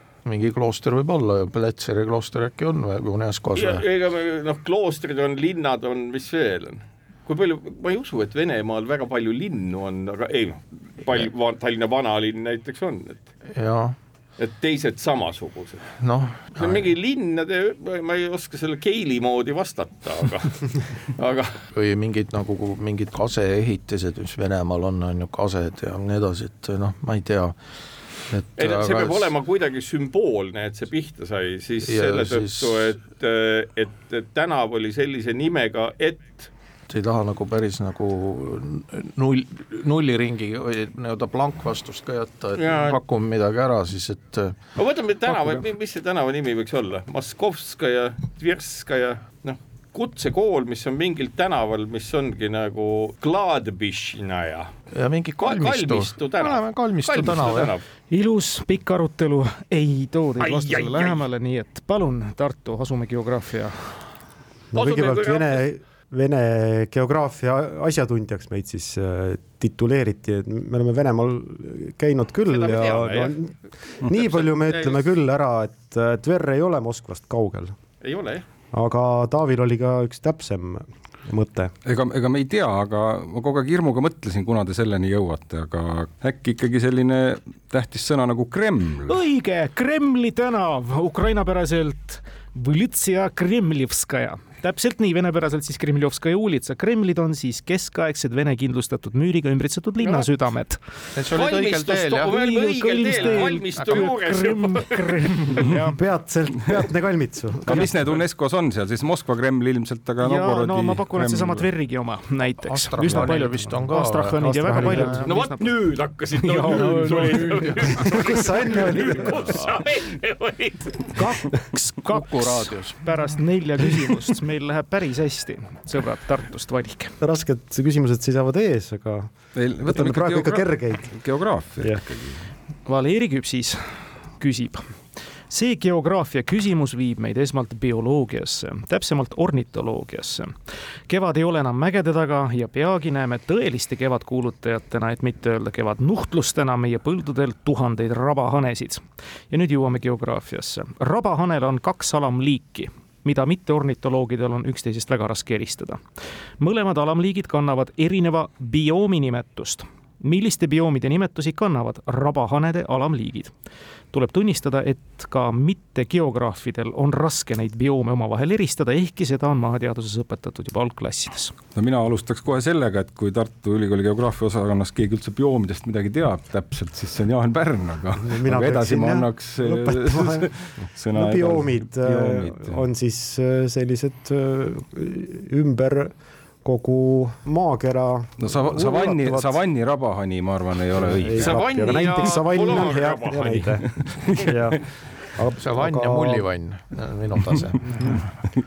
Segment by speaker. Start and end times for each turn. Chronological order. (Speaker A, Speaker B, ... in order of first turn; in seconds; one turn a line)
Speaker A: 0.2-3.8
Speaker B: 3.5-13.3
Speaker A: 13.5-13.9
Speaker B: 14.4-16.0
Speaker A: 16.0-16.9
Speaker B: 16.5-21.6
Speaker A: 21.7-27.6
Speaker A: 28.3-29.3
Speaker B: 28.6-36.5
Speaker A: 31.8-32.9
Speaker A: 36.9-44.6
Speaker B: 42.5-43.0
Speaker B: 44.8-54.7
Speaker A: 54.9-57.7
Speaker B: 55.4-57.8
Speaker C: 58.1-64.0
Speaker B: 60.4-61.2
Speaker D: 64.7-77.8
Speaker B: 64.7-65.6
Speaker B: 72.5-73.4
Speaker B: 74.0-75.0
Speaker B: 78.0-78.4
Speaker D: 78.7-81.7
Speaker E: 81.8-89.2
Speaker C: 89.1-100.8
Speaker A: 101.1-102.5
Speaker B: 101.3-105.6
Speaker C: 102.3-106.0
Speaker A: 103.1-104.1
Speaker D: 105.9-107.9
Speaker E: 107.7-111.7
Speaker C: 110.2-115.7
Speaker A: 112.6-115.2
Speaker D: 114.4-115.4
Speaker B: 115.2-121.2
Speaker C: 116.5-116.9
Speaker A: 116.6-118.2
Speaker D: 118.1-119.7
Speaker C: 121.1-127.2
Speaker A: 122.1-123.0
Speaker D: 127.2-131.2
Speaker E: 129.5-132.4
Speaker D: 131.8-132.1
Speaker C: 132.8-134.8
Speaker C: 135.5-140.5
Speaker C: 141.1-156.0
Speaker C: 156.6-163.5
Speaker C: 164.1-171.5
Speaker E: 171.7-182.8
Speaker D: 178.2-180.5
Speaker D: 181.1-189.6
Speaker E: 188.4-192.0
Speaker D: 190.9-196.5
Speaker B: 191.4-193.6
Speaker E: 193.4-194.6
Speaker A: 195.6-198.2